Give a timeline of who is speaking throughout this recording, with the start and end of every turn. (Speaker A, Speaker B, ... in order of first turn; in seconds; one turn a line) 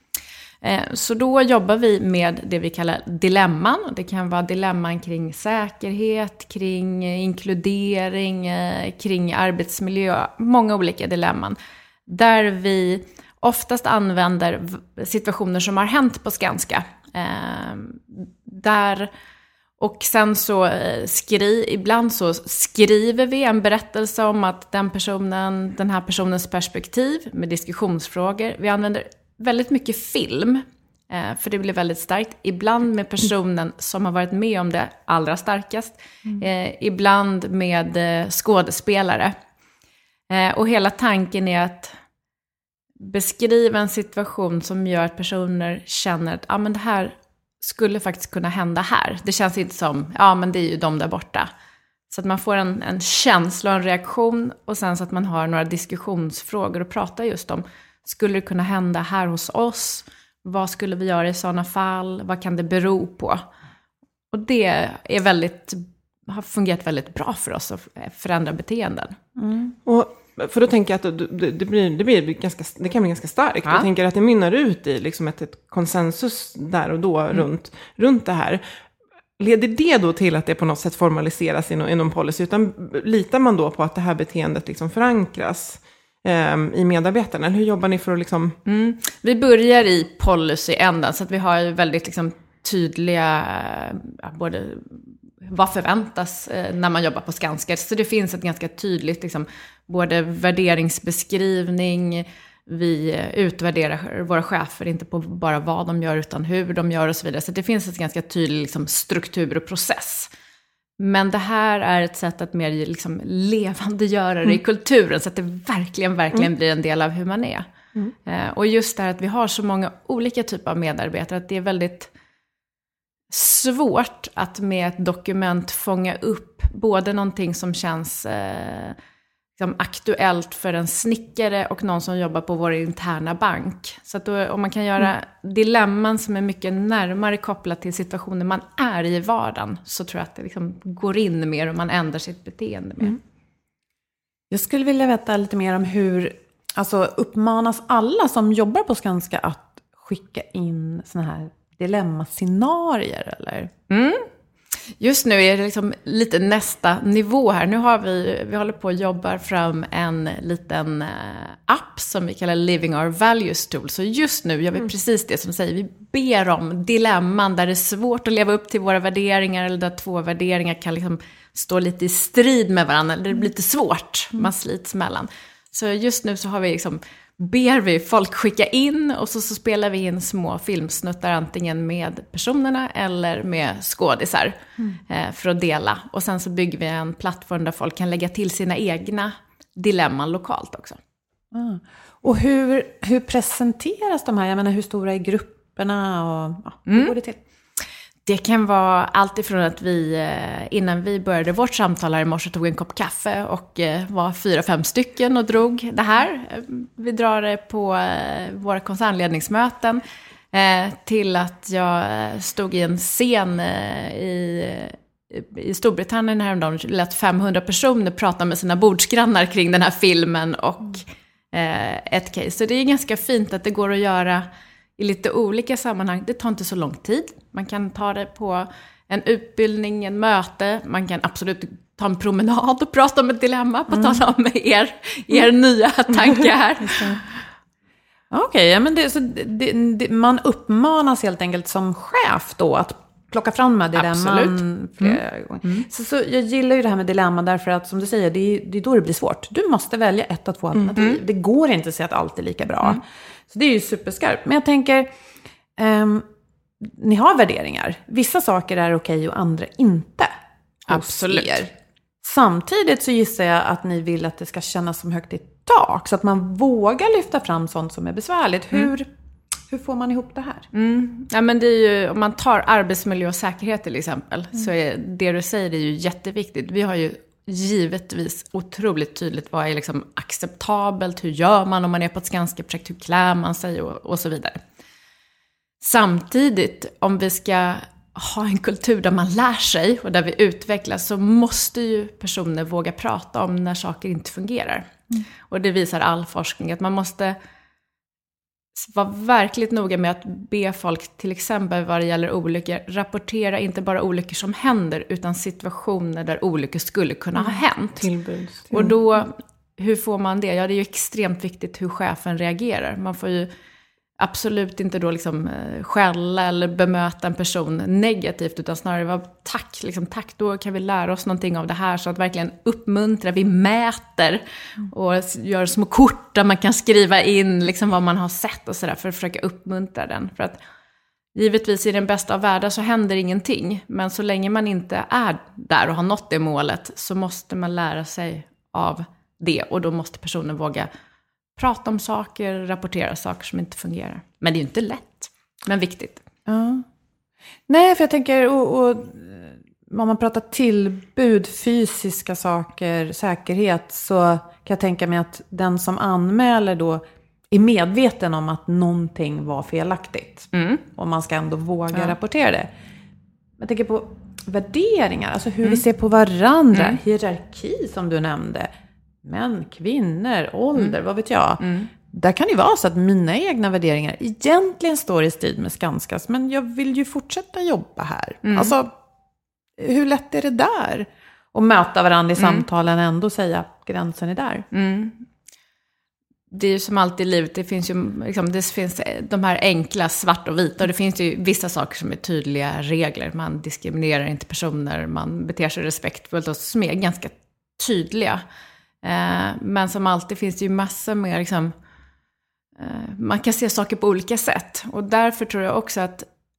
Speaker A: 0.6-19.1
Speaker A: 19.8-39.4
Speaker A: 40.3-42.0
Speaker A: 43.0-51.5
Speaker A: 52.1-63.4
Speaker A: 64.3-69.2
Speaker B: 69.4-69.8
Speaker C: 69.9-78.7
Speaker C: 79.4-88.6
Speaker A: 88.7-110.3
Speaker A: 111.0-117.7
Speaker A: 118.3-122.1
Speaker A: 123.3-129.0
Speaker A: 129.6-143.2
Speaker B: 144.5-153.7
Speaker A: 153.9-154.3
Speaker A: 155.0-191.0
Speaker B: 191.5-197.4
Speaker A: 196.9-197.1
Speaker A: 198.3-224.5
Speaker A: 225.0-237.1
Speaker B: 238.3-255.1
Speaker C: 244.0-245.2
Speaker B: 255.8-256.3
Speaker B: 256.8-260.3
Speaker A: 260.9-261.7
Speaker B: 260.9-269.1
Speaker B: 269.7-270.7
Speaker A: 270.7-284.6
Speaker A: 285.8-294.9
Speaker A: 295.4-297.4
Speaker A: 298.8-308.1
Speaker C: 307.4-308.9
Speaker A: 308.7-313.5
Speaker A: 314.2-330.6
Speaker A: 331.4-340.9
Speaker A: 341.6-346.2
Speaker B: 346.5-346.9
Speaker B: 347.7-362.7
Speaker A: 360.5-360.8
Speaker B: 363.6-368.7
Speaker A: 366.7-367.0
Speaker B: 369.2-378.9
Speaker A: 371.6-371.9
Speaker A: 378.4-378.8
Speaker B: 379.8-384.7
Speaker A: 382.4-382.7
Speaker A: 384.7-385.3
Speaker A: 386.5-398.4
Speaker A: 399.0-401.8
Speaker A: 402.8-406.3